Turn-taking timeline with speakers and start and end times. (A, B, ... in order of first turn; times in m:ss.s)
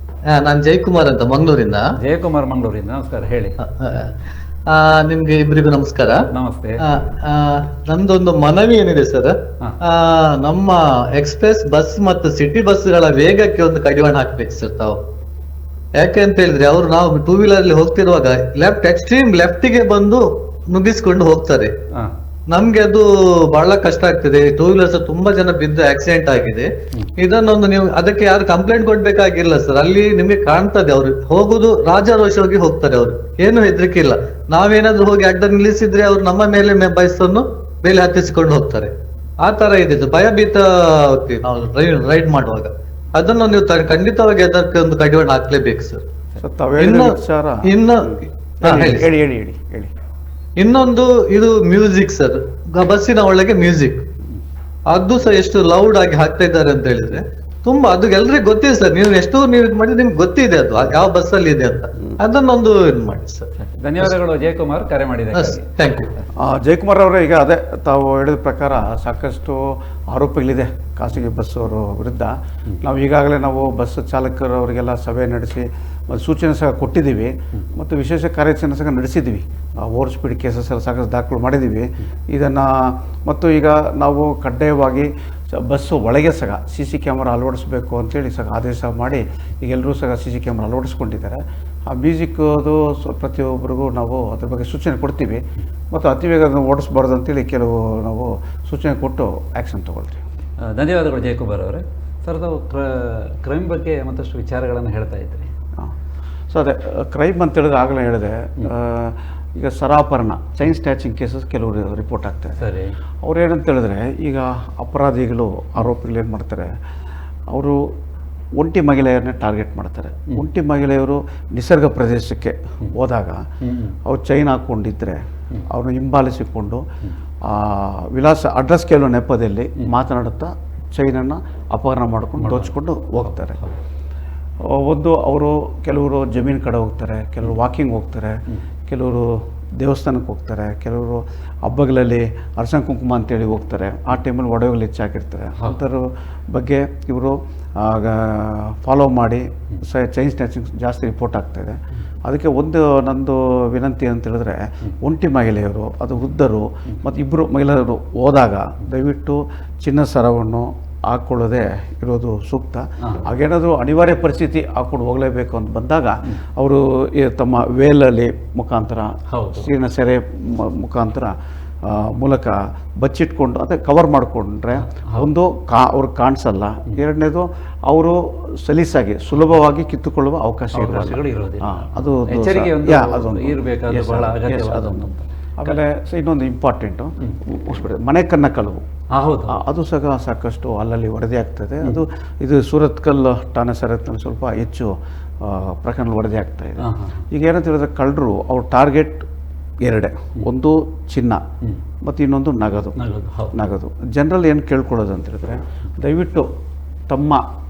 0:00.3-0:01.8 A
0:02.0-0:03.6 B
0:03.6-0:04.1 A
0:04.7-0:06.2 A
0:06.3-0:06.8 B
0:06.8-0:15.0 A
0:16.0-0:21.7 A
0:22.5-0:46.0 A
0:46.4-0:47.8 C
0:46.8-0:47.2 A
0:47.7-0:49.1 A
0:48.6-0:49.9 C
0:50.6-0:54.0 A
0:54.9-1:03.5 A
1:03.6-1:05.6 B
1:05.3-1:06.1 A
1:06.4-1:40.2 C
1:40.6-1:45.5 B
1:46.5-1:52.6 C
1:52.6-1:52.9 B
1:53.2-1:56.7 C
1:57.5-1:57.8 C
1:58.6-2:03.4 C
2:03.6-2:03.9 B
2:04.0-2:06.8 C
2:07.4-2:13.6 C
2:12.4-2:13.7 B
2:14.7-2:18.4 C
2:18.9-3:08.8 C
2:49.3-2:49.7 B
2:54.8-2:55.3 B
3:00.7-3:05.7 B
3:09.1-3:09.6 B
3:09.5-3:19.2 C
3:16.8-3:17.2 B
3:19.8-3:21.4 C
3:22.0-3:23.0 C
3:23.0-3:23.6 B
3:23.5-3:26.5 C
3:27.1-3:27.4 C